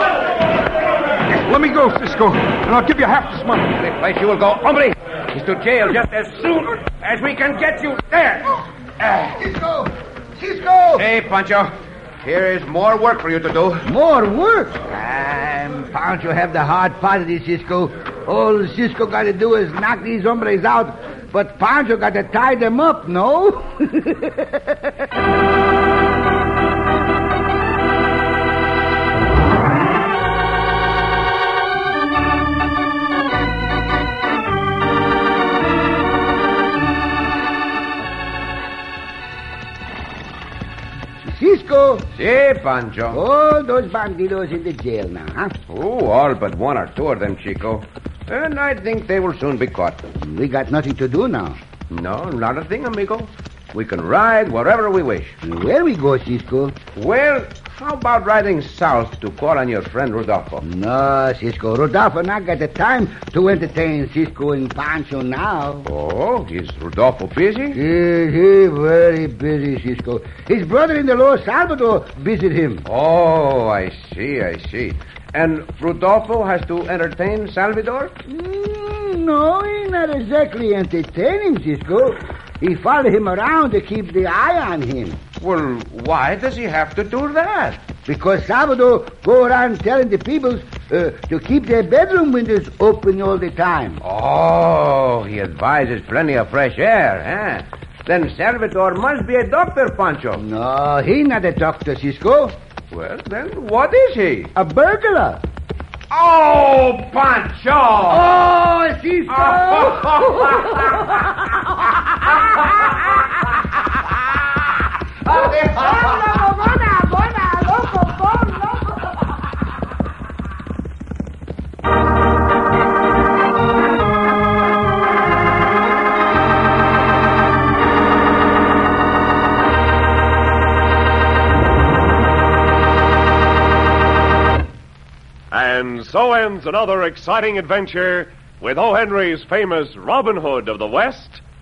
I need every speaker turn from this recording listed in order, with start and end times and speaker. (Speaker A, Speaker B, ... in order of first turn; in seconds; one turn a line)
Speaker A: 1.3-3.8
Speaker B: 3.8-9.2
Speaker C: 9.2-11.1
Speaker B: 10.9-13.9
Speaker C: 13.8-24.8
Speaker C: 41.2-42.1
Speaker B: 42.1-43.2
Speaker C: 43.1-45.5
Speaker B: 45.7-50.0
Speaker C: 50.2-51.6
Speaker B: 51.9-55.4
Speaker C: 55.4-56.8
Speaker B: 56.9-60.6
Speaker C: 60.6-65.9
Speaker B: 65.8-67.8
Speaker C: 67.7-72.8
Speaker B: 72.8-78.2
Speaker C: 78.2-85.2
Speaker B: 85.4-87.8
Speaker C: 88.0-94.0
Speaker B: 94.0-100.4
Speaker C: 100.3-102.6
Speaker B: 102.9-104.5
Speaker C: 104.5-105.4
Speaker B: 106.1-108.3
Speaker C: 108.1-110.7
Speaker B: 109.3-111.2
Speaker B: 115.2-116.3
Speaker C: 115.4-119.0
Speaker D: 135.5-141.4